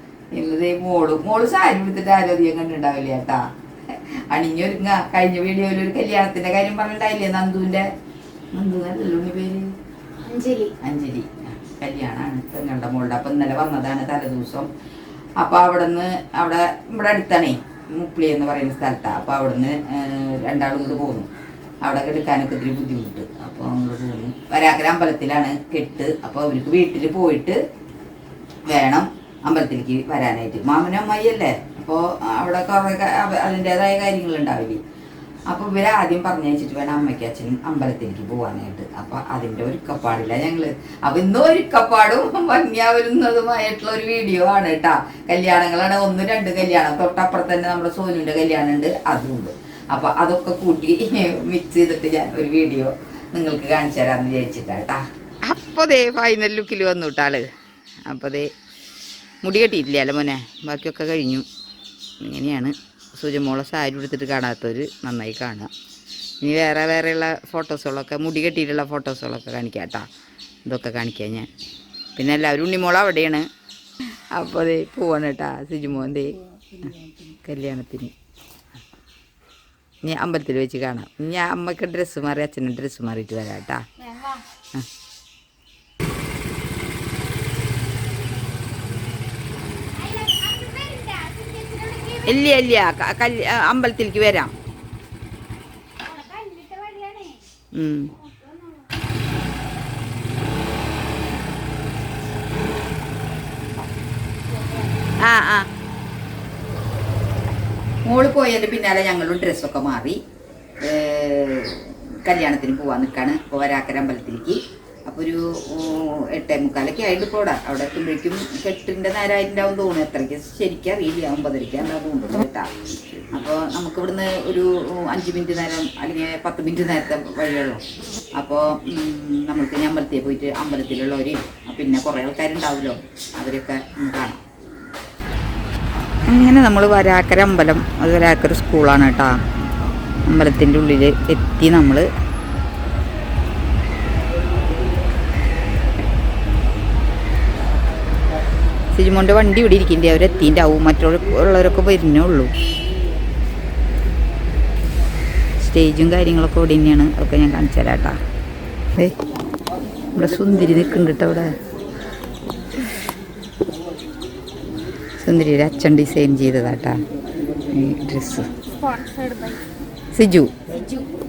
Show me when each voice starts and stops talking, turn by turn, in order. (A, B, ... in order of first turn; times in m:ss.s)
0:00.3-0:07.9 A
0:08.6-0:09.7 A
0:10.2-0:10.7 B
0:10.8-0:14.7 A
0:15.4-0:21.3 A
0:21.8-0:27.6 A
0:28.7-0:34.8 A
0:35.5-0:57.5 A
0:58.1-0:58.5 A
0:59.4-1:01.5 A
1:02.2-1:05.7 A
1:06.4-1:10.1 A
1:10.7-1:11.5 A
1:12.2-1:13.5 A
1:14.3-1:16.4 A
1:17.4-1:18.1 A
1:20.0-1:23.8 A
1:24.0-1:24.4 B
1:30.0-1:32.4 B
1:32.3-1:34.5 A
1:36.0-1:37.4 B
1:37.7-1:38.1 A
1:38.2-1:38.8 B
1:45.2-1:45.7 A
1:48.1-1:50.2 A
1:50.8-2:02.7 A
2:03.3-2:07.8 A
2:08.4-2:14.4 A
2:16.3-2:19.4 A
2:20.3-2:22.1 A
2:28.9-2:32.5 A
2:35.6-2:38.2 A
2:40.2-2:41.5 A
2:45.2-2:47.0 A
2:47.7-2:48.5 A
2:48.8-2:49.6 B
2:50.1-2:50.5 A